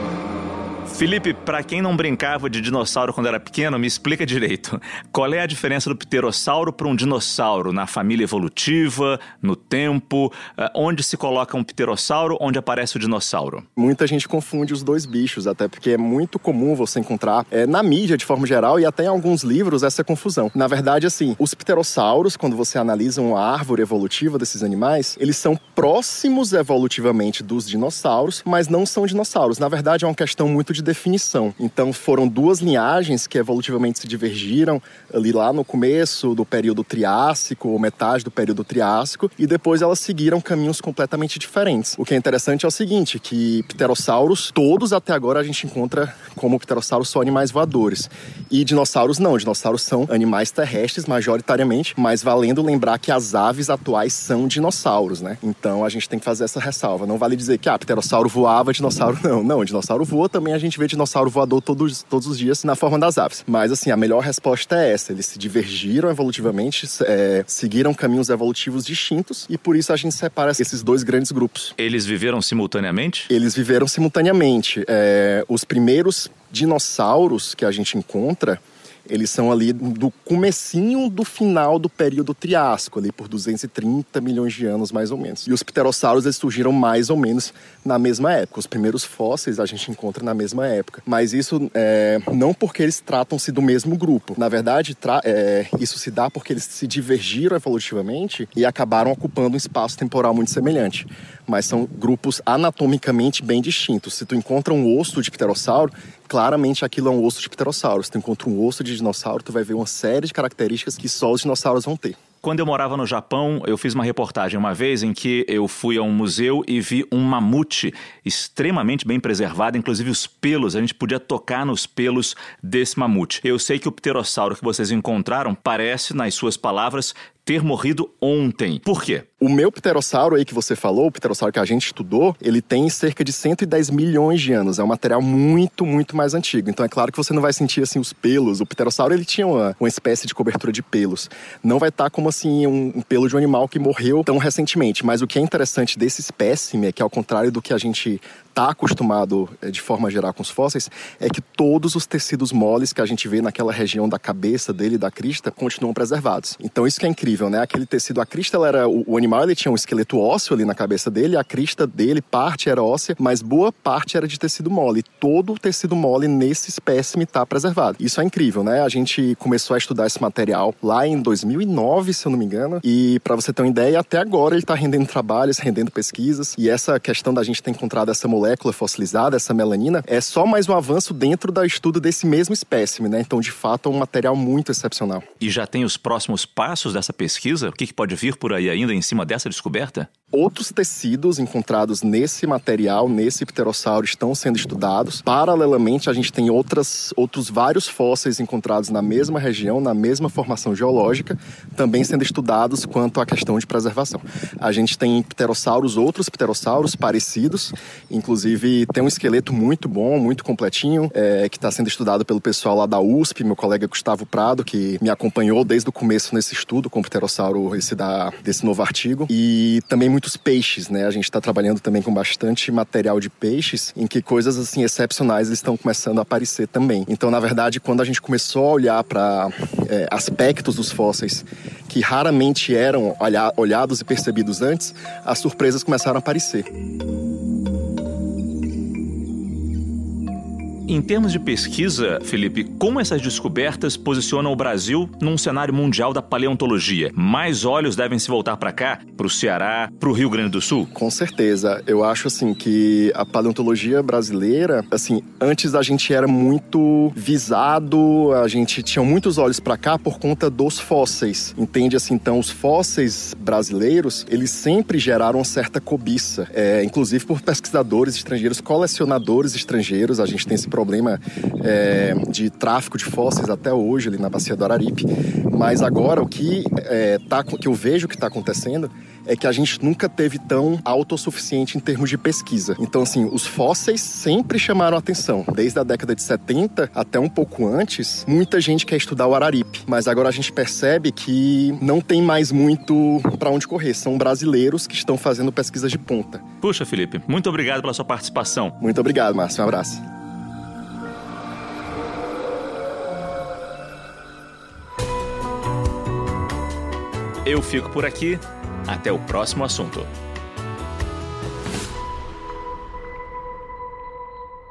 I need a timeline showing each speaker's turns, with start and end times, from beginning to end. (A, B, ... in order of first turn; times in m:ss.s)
0:00.9-0:13.7 A
0:13.8-1:11.8 B
1:11.8-1:13.3 A
1:13.3-1:52.2 B
1:52.4-2:09.3 A
2:09.4-3:05.3 B
3:05.4-3:10.1 A
3:10.3-3:56.7 B
4:00.9-4:10.9 A
4:10.9-4:56.4 B
4:56.6-4:58.8 A
4:58.8-5:00.0 B
5:07.4-5:10.1 A